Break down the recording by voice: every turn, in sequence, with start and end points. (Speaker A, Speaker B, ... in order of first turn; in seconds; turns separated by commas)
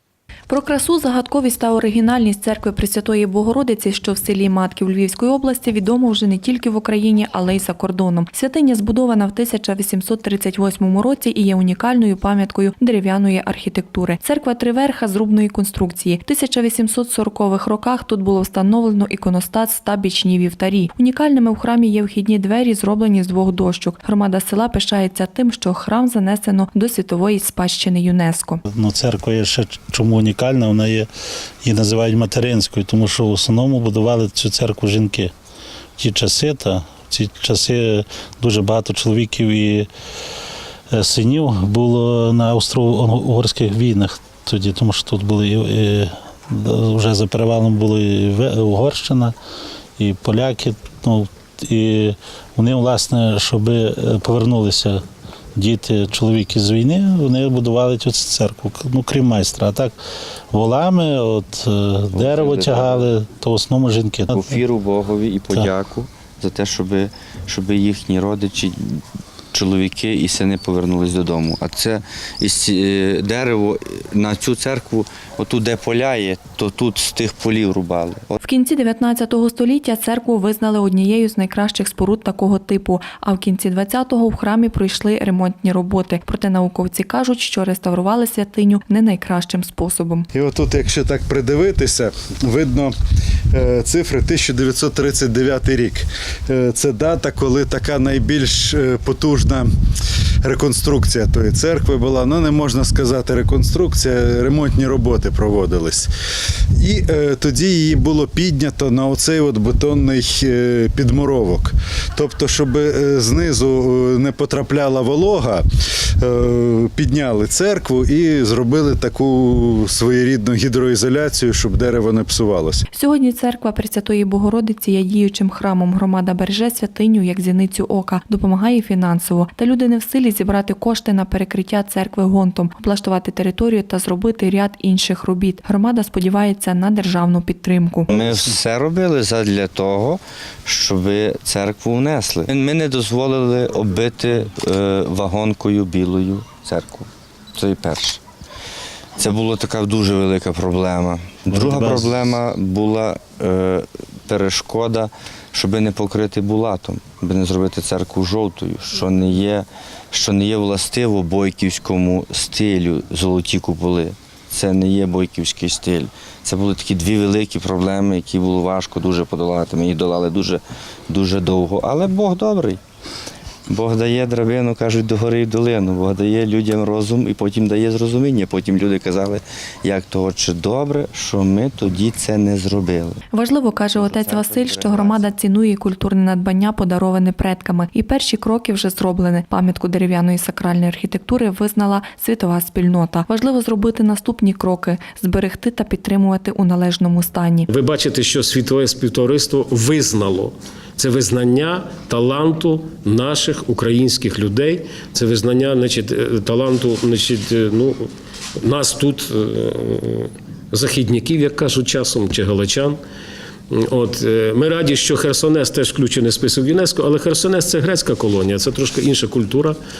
Speaker A: 0.5-28.6, Speaker B: 28.7-31.1, Speaker B: 31.6-35.3, Speaker B: 36.0-39.9, Speaker B: 40.9-49.3, Speaker B: 50.0-55.0, Speaker B: 55.5-59.9, Speaker B: 60.5-64.5, Speaker C: 62.1-63.1, Speaker C: 64.3-69.0, Speaker C: 69.5-78.4, Speaker A: 78.4-90.3, Speaker D: 90.3-92.9, Speaker D: 93.5-99.7, Speaker D: 100.4-106.1, Speaker D: 106.7-115.7, Speaker D: 116.2-122.8, Speaker A: 122.9-138.1, Speaker C: 138.1-148.2, Speaker C: 149.2-172.8, Speaker B: 151.5-152.1, Speaker C: 173.7-183.2, Speaker A: 183.3-197.7, Speaker C: 183.9-185.3, Speaker E: 197.7-208.1, Speaker E: 208.6-213.0, Speaker E: 213.7-219.8